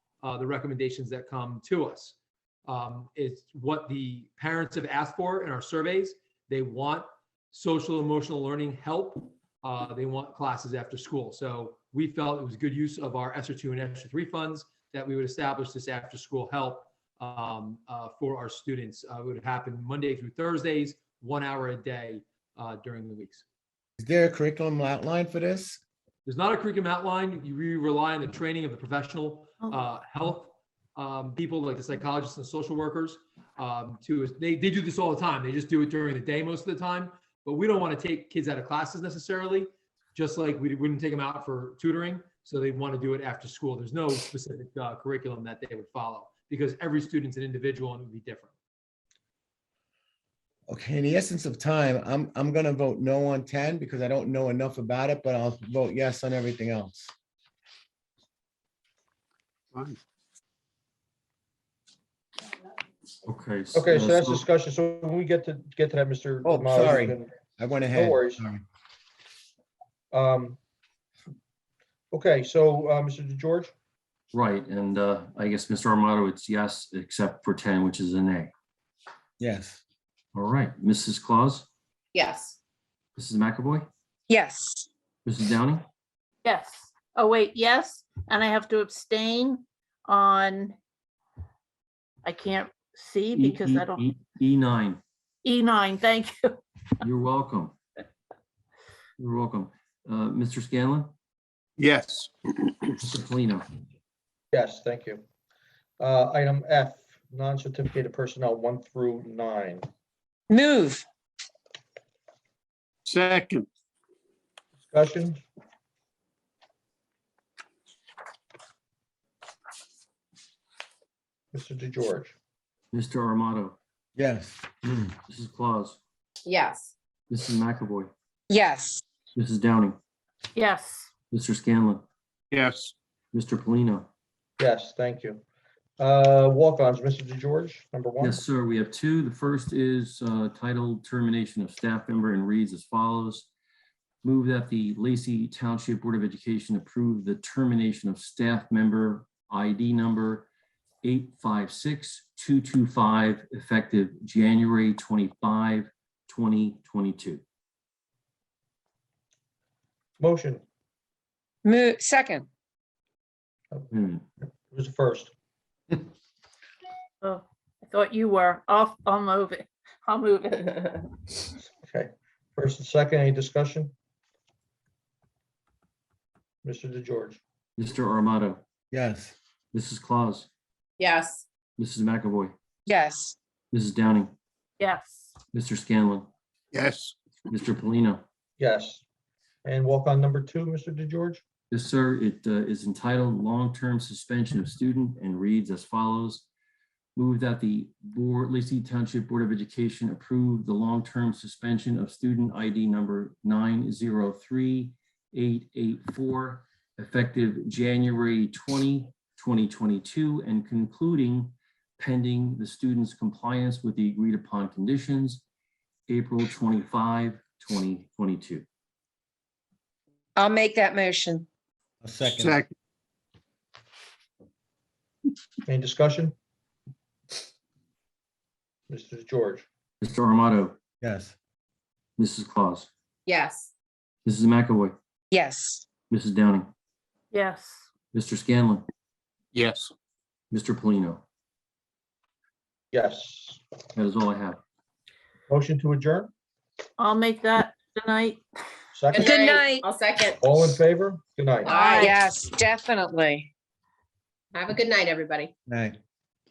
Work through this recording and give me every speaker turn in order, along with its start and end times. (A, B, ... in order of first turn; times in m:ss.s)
0:00.2-0:02.2 A
0:02.7-0:23.4 A
0:24.0-0:25.8 B
0:26.2-0:48.5 A
0:50.7-0:57.1 B
0:59.7-1:00.0 C
1:03.2-1:04.4 D
1:03.7-1:07.3 E
1:06.4-1:08.6 B
1:07.9-1:08.4 E
1:10.1-1:10.6 E
1:12.1-1:13.7 E
1:14.3-1:18.5 D
1:19.4-1:19.8 B
1:20.3-1:21.7 D
1:22.1-1:22.6 F
1:23.2-1:23.9 D
1:24.3-1:24.9 G
1:25.2-1:25.8 D
1:26.4-1:30.8 H
1:32.2-1:34.0 H
1:33.3-1:35.0 D
1:35.4-1:36.6 H
1:37.0-1:37.8 D
1:39.2-1:41.1 D
1:41.8-1:42.8 C
1:43.0-1:43.7 D
1:44.5-1:45.2 E
1:46.0-1:49.8 E
1:50.5-1:51.0 G
1:53.0-1:53.7 C
1:54.8-1:55.4 E
2:01.5-2:02.3 E
2:02.9-2:03.8 D
2:04.2-2:05.1 B
2:05.3-2:06.0 D
2:06.4-2:06.9 F
2:07.3-2:08.1 D
2:08.5-2:09.0 G
2:09.3-2:10.0 D
2:10.5-2:11.1 H
2:11.3-2:12.0 D
2:12.5-2:12.9 C
2:13.3-2:14.1 D
2:14.6-2:15.4 E
2:16.0-2:18.4 E
2:18.2-2:23.5 D
2:24.2-2:30.5 D
2:31.0-2:37.4 D
2:40.2-2:40.6 E
2:41.6-2:42.5 G
2:43.9-2:44.2 D
2:44.5-2:45.3 E
2:47.2-2:51.0 H
2:51.8-2:53.9 E
2:56.6-2:57.4 E
2:57.8-2:58.6 D
2:58.9-2:59.3 B
2:59.7-3:00.5 D
3:01.0-3:01.4 F
3:01.8-3:02.5 D
3:02.8-3:03.4 G
3:03.7-3:04.3 D
3:04.8-3:05.3 H
3:05.5-3:06.3 D
3:06.7-3:07.2 C
3:07.5-3:08.2 D
3:08.6-3:09.0 E
3:09.6-3:11.4 E
3:11.7-3:16.4 D
3:17.2-3:35.4 D
3:36.1-3:38.6 D
3:40.4-3:41.5 G
3:42.0-3:42.6 B
3:42.2-3:42.7 C
3:45.6-3:46.3 E
3:48.9-3:49.6 E
3:50.0-3:50.8 D
3:51.0-3:51.3 B
3:52.2-3:52.9 D
3:53.2-3:53.7 F
3:54.2-3:54.9 D
3:55.3-3:55.8 G
3:56.1-3:56.7 D
3:57.3-3:57.8 H
3:58.1-3:58.8 D
3:59.5-3:59.9 C
4:00.5-4:01.2 D
4:02.9-4:03.6 E
4:03.9-4:04.6 D
4:05.5-4:06.3 E
4:07.0-4:08.4 H
4:08.9-4:09.5 E
4:09.1-4:10.4 F
4:09.2-4:09.8 G
4:10.4-4:11.7 E
4:11.6-4:12.2 H
4:11.6-4:12.2 F
4:11.7-4:13.5 G
4:14.5-4:15.5 F
4:15.7-4:16.0 B